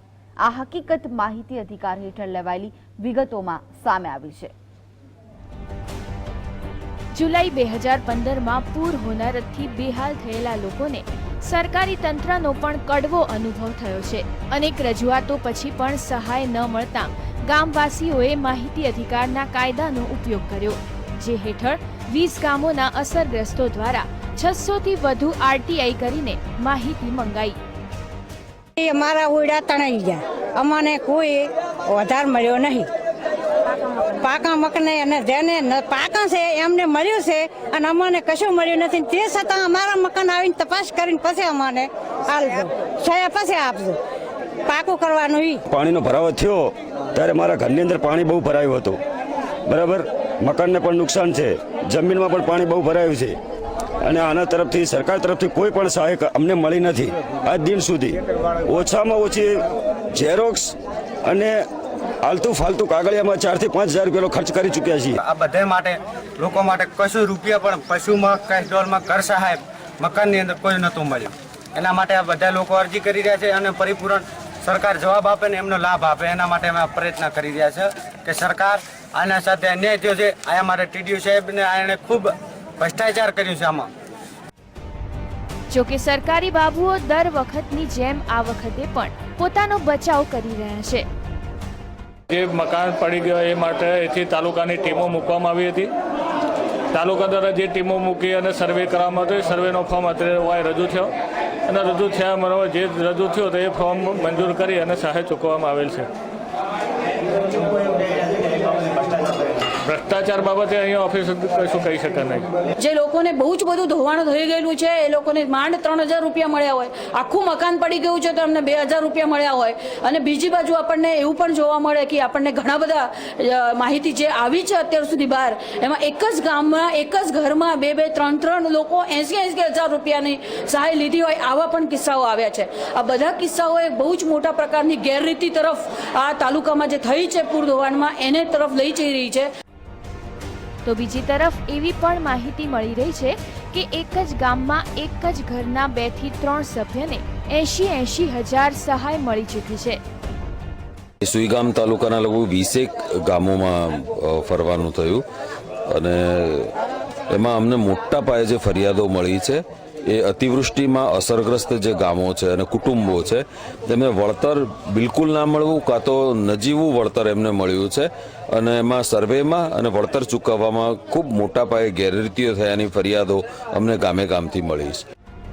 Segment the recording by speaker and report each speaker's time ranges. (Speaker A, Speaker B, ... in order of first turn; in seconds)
Speaker A: 0.4-4.5
Speaker B: 7.1-27.6, 85.7-91.1, 140.8-150.0
Speaker C: 28.8-32.9, 34.1-44.0, 44.7-45.6
Speaker D: 45.7-49.0, 49.7-53.4, 54.0-59.6, 60.1-60.8, 61.3-61.6, 62.2-65.2
Speaker E: 65.2-83.9
Speaker F: 92.3-95.9, 96.9-101.1, 101.7-106.1, 109.8-112.5
Speaker G: 112.8-139.5
Speaker H: 151.2-155.2, 155.9-156.7, 157.3-175.0